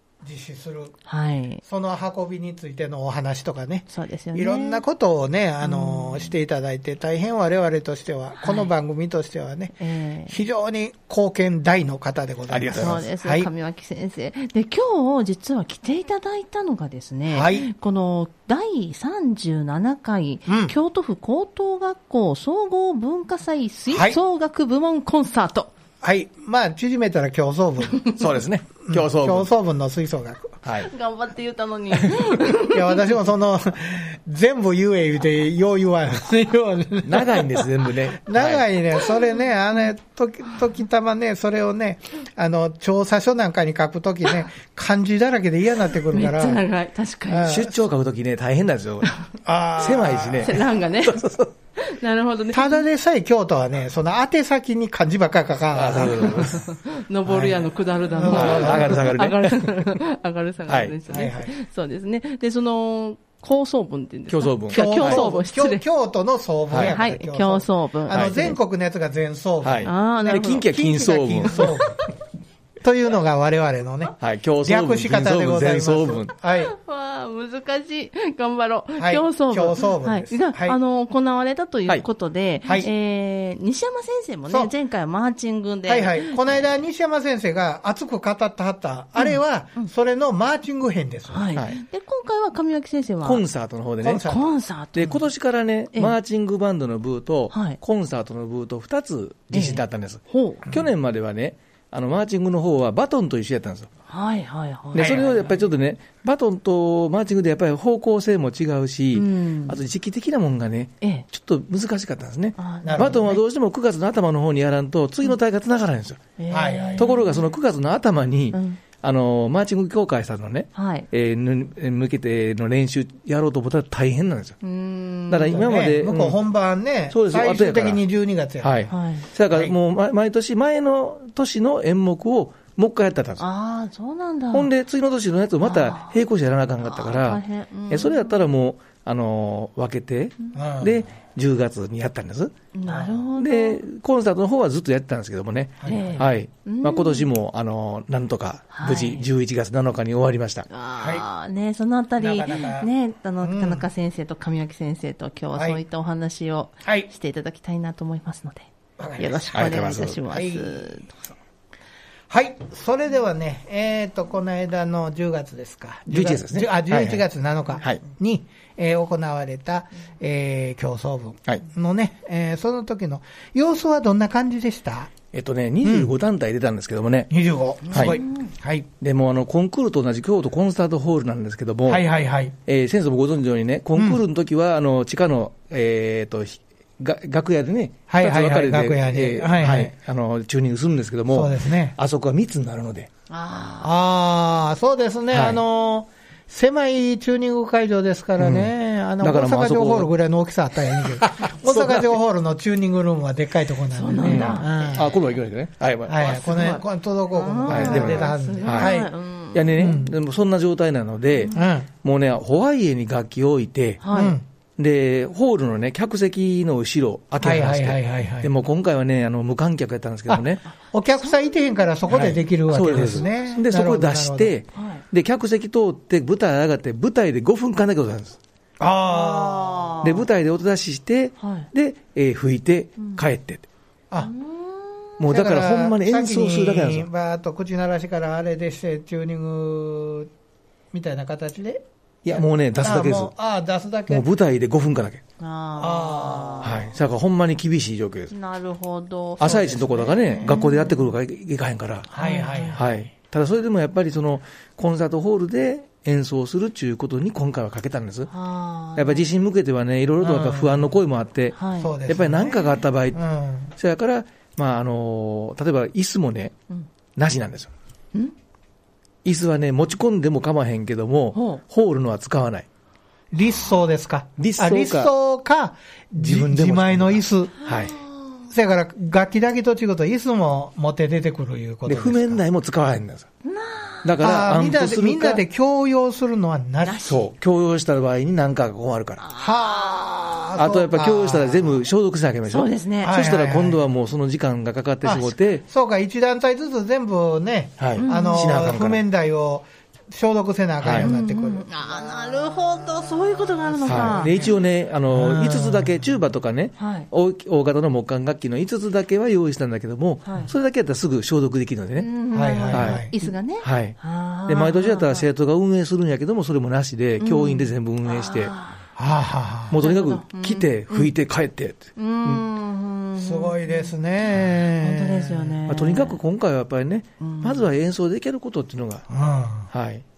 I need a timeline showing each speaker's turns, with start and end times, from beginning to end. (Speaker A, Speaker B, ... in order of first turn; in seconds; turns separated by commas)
Speaker A: 0.2-0.9, Speaker B: 1.1-1.6, Speaker A: 1.6-13.5, Speaker B: 3.9-4.8, Speaker B: 5.6-6.3, Speaker B: 8.4-8.7, Speaker B: 9.8-10.3, Speaker C: 12.5-13.0, Speaker B: 12.8-25.7, Speaker A: 17.3-17.7, Speaker A: 20.5-20.7, Speaker A: 23.9-24.2, Speaker A: 26.0-28.1, Speaker C: 28.1-29.5, Speaker A: 28.8-30.4, Speaker C: 30.6-30.9, Speaker B: 30.7-33.1, Speaker A: 32.5-46.6, Speaker C: 37.0-38.6, Speaker B: 46.1-47.6, Speaker A: 47.3-47.8, Speaker C: 47.5-49.1, Speaker A: 49.4-50.6, Speaker C: 49.8-51.5, Speaker B: 50.4-51.2, Speaker B: 51.8-52.8, Speaker A: 52.5-56.7, Speaker C: 55.7-56.6, Speaker B: 56.1-65.8, Speaker A: 57.2-59.1, Speaker C: 58.2-60.0, Speaker C: 60.7-60.9, Speaker A: 61.1-61.5, Speaker C: 64.3-65.3, Speaker A: 64.7-72.0, Speaker B: 66.7-68.5, Speaker C: 68.1-68.5, Speaker C: 69.6-71.8, Speaker B: 69.8-70.9, Speaker B: 71.4-71.9, Speaker A: 72.8-76.7, Speaker C: 74.2-76.3, Speaker B: 76.5-86.6, Speaker A: 79.0-80.8, Speaker A: 85.9-91.5, Speaker B: 89.2-89.9, Speaker B: 91.3-93.4, Speaker C: 91.5-91.8, Speaker C: 93.2-94.2, Speaker A: 94.0-94.5, Speaker B: 94.2-95.2, Speaker C: 94.9-103.9, Speaker B: 97.5-97.8, Speaker B: 99.5-100.7, Speaker B: 104.1-105.5, Speaker C: 104.9-116.3, Speaker A: 105.0-105.4, Speaker B: 109.1-109.8, Speaker B: 112.6-113.4, Speaker A: 112.8-113.2, Speaker B: 116.4-117.4, Speaker A: 116.5-117.2, Speaker C: 117.0-124.6, Speaker B: 118.5-118.8, Speaker B: 120.7-121.1, Speaker B: 124.6-125.7, Speaker C: 125.3-126.4, Speaker A: 125.5-128.9, Speaker C: 127.1-128.0, Speaker C: 128.6-133.4, Speaker B: 128.9-129.3, Speaker B: 133.4-134.7, Speaker C: 134.5-150.7, Speaker B: 135.6-136.2, Speaker B: 136.8-138.3, Speaker A: 140.5-141.1, Speaker B: 142.7-143.8, Speaker A: 145.8-146.2, Speaker B: 145.8-147.3, Speaker B: 148.7-149.3, Speaker B: 150.7-161.3, Speaker A: 151.0-151.2, Speaker A: 152.2-152.9, Speaker A: 153.4-153.8, Speaker A: 155.5-155.8, Speaker A: 156.8-157.1, Speaker A: 159.0-159.8, Speaker C: 159.5-160.2, Speaker A: 160.3-160.9, Speaker A: 162.3-175.1, Speaker C: 166.1-167.2, Speaker C: 175.3-177.3, Speaker A: 175.8-176.1, Speaker A: 177.3-178.9, Speaker B: 177.8-178.5, Speaker C: 177.9-178.2, Speaker C: 179.0-182.0, Speaker A: 181.8-182.6, Speaker C: 182.7-193.1, Speaker A: 183.9-184.2, Speaker A: 188.1-189.9, Speaker A: 191.3-192.0, Speaker B: 193.3-193.9, Speaker A: 193.8-205.1, Speaker C: 195.3-195.6, Speaker C: 198.4-200.1, Speaker C: 200.9-202.2, Speaker B: 203.9-205.0, Speaker C: 204.2-206.5, Speaker A: 206.1-209.1, Speaker B: 206.4-210.0, Speaker C: 207.7-208.9, Speaker C: 209.5-214.1, Speaker A: 209.7-210.1, Speaker A: 211.5-211.9, Speaker B: 214.0-214.4, Speaker A: 214.1-214.4, Speaker C: 214.8-220.6, Speaker A: 217.4-218.5, Speaker A: 220.3-224.5, Speaker B: 221.2-221.6, Speaker C: 222.1-228.4, Speaker B: 223.0-223.5, Speaker B: 224.7-225.0, Speaker A: 228.8-230.0, Speaker B: 229.1-230.2, Speaker C: 230.0-233.6, Speaker B: 231.4-231.7, Speaker B: 233.0-233.2, Speaker B: 234.2-235.2, Speaker C: 235.2-237.1, Speaker A: 235.3-240.3, Speaker A: 240.9-244.3, Speaker C: 242.2-243.3, Speaker C: 244.1-245.2, Speaker B: 245.4-246.9, Speaker A: 245.8-246.9, Speaker C: 246.6-248.3, Speaker B: 248.3-251.1, Speaker C: 249.4-252.1, Speaker A: 249.4-250.1, Speaker A: 252.1-252.9, Speaker B: 252.2-252.8, Speaker C: 252.7-258.3, Speaker B: 258.3-259.2, Speaker C: 258.9-263.2, Speaker A: 260.2-260.9, Speaker B: 261.5-261.9, Speaker A: 261.8-263.7, Speaker C: 263.8-266.6, Speaker C: 267.1-267.7, Speaker C: 269.2-272.6, Speaker B: 271.3-271.6, Speaker A: 273.3-277.5, Speaker C: 274.4-275.1, Speaker C: 276.2-277.9, Speaker B: 277.6-278.4, Speaker A: 278.5-282.4, Speaker C: 281.9-283.3, Speaker B: 283.4-284.1, Speaker C: 284.0-285.4, Speaker A: 284.2-287.1, Speaker B: 286.8-287.3, Speaker C: 287.0-289.2, Speaker B: 289.2-290.0, Speaker A: 289.4-291.8, Speaker C: 290.6-295.6, Speaker B: 292.5-293.2, Speaker A: 293.0-293.8, Speaker A: 295.0-301.6, Speaker C: 297.8-299.0, Speaker B: 297.9-298.5, Speaker C: 300.8-301.1, Speaker B: 301.0-304.5, Speaker A: 303.8-304.5, Speaker C: 303.9-312.1, Speaker A: 305.1-306.1, Speaker B: 306.8-307.1, Speaker B: 310.2-310.5, Speaker B: 312.0-315.2, Speaker A: 312.3-313.1, Speaker C: 312.7-318.5, Speaker B: 317.2-318.8, Speaker A: 318.9-319.8, Speaker C: 319.7-322.4, Speaker B: 319.8-321.1, Speaker B: 321.9-326.2, Speaker A: 323.2-325.6, Speaker C: 325.7-329.0, Speaker B: 327.2-327.7, Speaker A: 329.1-329.7, Speaker C: 329.7-330.0